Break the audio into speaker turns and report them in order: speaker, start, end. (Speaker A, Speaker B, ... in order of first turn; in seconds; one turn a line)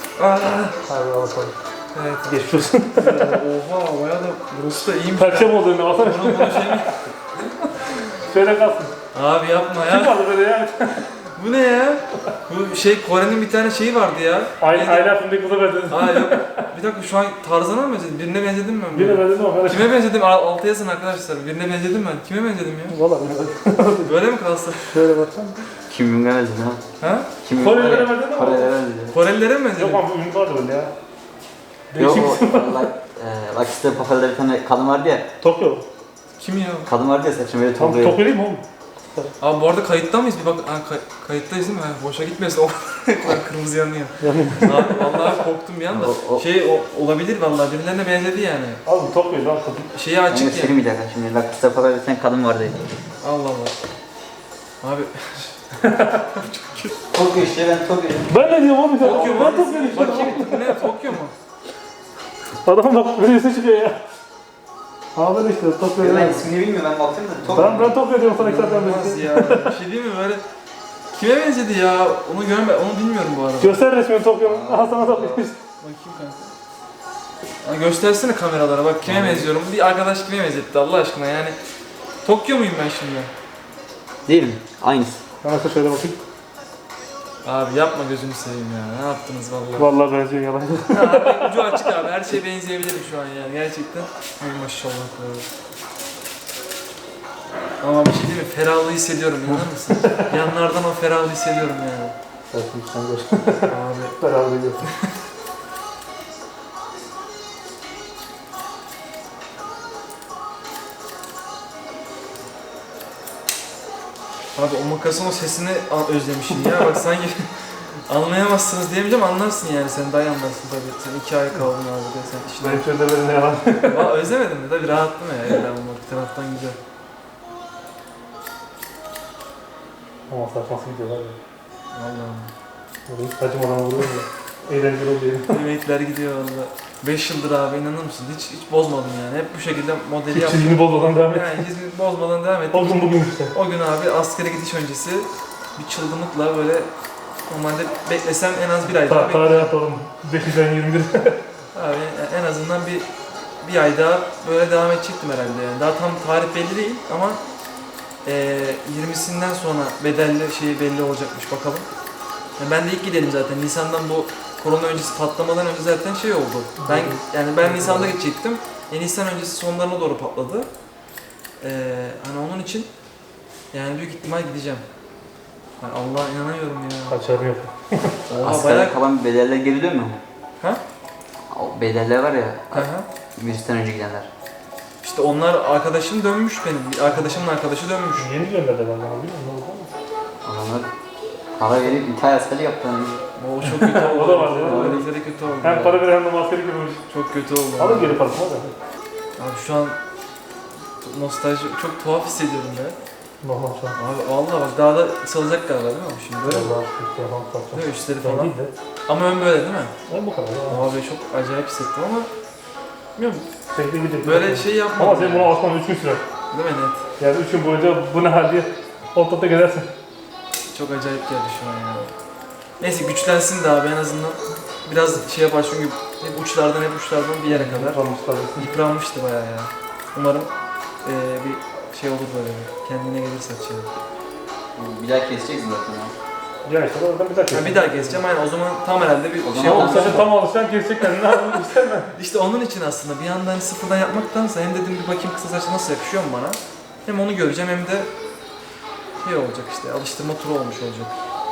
Speaker A: 0.2-0.8
Speaker B: 0.9-1.6
Speaker A: 1.9-2.4
Speaker B: 2.3-3.4
Speaker A: 2.9-8.2
Speaker B: 5.2-6.9
Speaker B: 8.2-8.9
Speaker A: 9.1-10.3
Speaker B: 9.8-11.1
Speaker A: 11.2-15.1
Speaker B: 14.6-16.7
Speaker A: 15.9-23.0
Speaker B: 18.9-20.0
Speaker B: 22.9-24.2
Speaker A: 24.0-25.1
Speaker B: 24.9-25.6
Speaker C: 25.9-26.8
Speaker A: 27.0-27.3
Speaker C: 27.4-29.1
Speaker B: 27.5-28.8
Speaker A: 29.1-30.0
Speaker B: 29.8-30.9
Speaker B: 31.9-32.9
Speaker C: 32.0-35.3
Speaker B: 35.4-35.9
Speaker A: 36.4-36.9
Speaker C: 36.9-38.2
Speaker B: 37.8-39.3
Speaker A: 39.4-48.8
Speaker B: 44.2-45.1
Speaker C: 45.9-46.4
Speaker B: 48.9-49.9
Speaker A: 49.9-50.8
Speaker C: 50.3-52.8
Speaker A: 53.2-53.8
Speaker A: 54.8-55.5
Speaker B: 55.8-56.1
Speaker A: 56.1-57.0
Speaker C: 57.1-60.4
Speaker B: 58.3-60.8
Speaker A: 59.0-61.3
Speaker B: 62.6-64.0
Speaker B: 65.2-66.5
Speaker C: 66.0-68.0
Speaker A: 67.4-70.4
Speaker B: 67.5-69.7
Speaker A: 71.1-73.8
Speaker B: 73.6-75.6
Speaker C: 74.4-75.5
Speaker A: 75.8-76.5
Speaker A: 77.6-81.6
Speaker C: 79.0-79.5
Speaker A: 82.2-83.3
Speaker C: 84.3-85.2
Speaker B: 85.4-86.2
Speaker A: 87.4-89.9
Speaker B: 89.8-91.5
Speaker A: 90.9-95.5
Speaker A: 97.8-102.2
Speaker B: 100.0-100.3
Speaker B: 102.5-104.9
Speaker A: 103.7-104.2
Speaker A: 104.8-105.1
Speaker A: 114.5-122.8
Speaker B: 122.6-124.1
Speaker A: 123.8-126.8
Speaker B: 130.3-131.4
Speaker A: 131.9-132.5
Speaker B: 133.1-135.6
Speaker A: 135.5-146.9
Speaker B: 140.3-141.7
Speaker B: 142.7-143.6
Speaker A: 147.5-149.7
Speaker B: 148.9-151.4
Speaker A: 151.7-153.1
Speaker A: 153.6-157.4
Speaker A: 158.2-161.9
Speaker A: 162.6-170.7
Speaker B: 166.8-168.2
Speaker A: 171.6-172.9
Speaker A: 173.7-174.8
Speaker A: 175.8-177.2
Speaker B: 177.1-178.2
Speaker A: 178.3-179.0
Speaker C: 178.4-180.2
Speaker C: 181.5-184.3
Speaker A: 182.7-183.1
Speaker A: 185.0-188.3
Speaker B: 188.2-189.9
Speaker C: 190.4-190.9
Speaker C: 191.6-193.2
Speaker A: 193.4-196.1
Speaker B: 193.8-195.1
Speaker C: 194.6-195.1
Speaker B: 195.6-197.0
Speaker A: 197.1-198.2
Speaker B: 197.8-198.8
Speaker A: 199.4-200.0
Speaker A: 201.0-203.0
Speaker B: 203.4-204.0
Speaker A: 204.0-206.7
Speaker B: 206.4-208.7
Speaker A: 207.7-208.6
Speaker A: 209.1-209.9
Speaker B: 210.1-210.9
Speaker A: 210.7-212.3
Speaker A: 213.2-213.5
Speaker B: 213.7-216.2
Speaker A: 214.2-215.6
Speaker A: 216.5-217.0
Speaker B: 217.2-219.9
Speaker A: 220.7-222.1
Speaker A: 222.8-228.0
Speaker B: 227.5-228.7
Speaker A: 228.6-230.5
Speaker A: 231.0-233.9
Speaker C: 234.8-236.1
Speaker B: 236.7-238.2
Speaker A: 237.5-240.3
Speaker C: 239.4-240.3
Speaker B: 239.6-242.1
Speaker A: 242.1-248.1
Speaker A: 249.2-251.1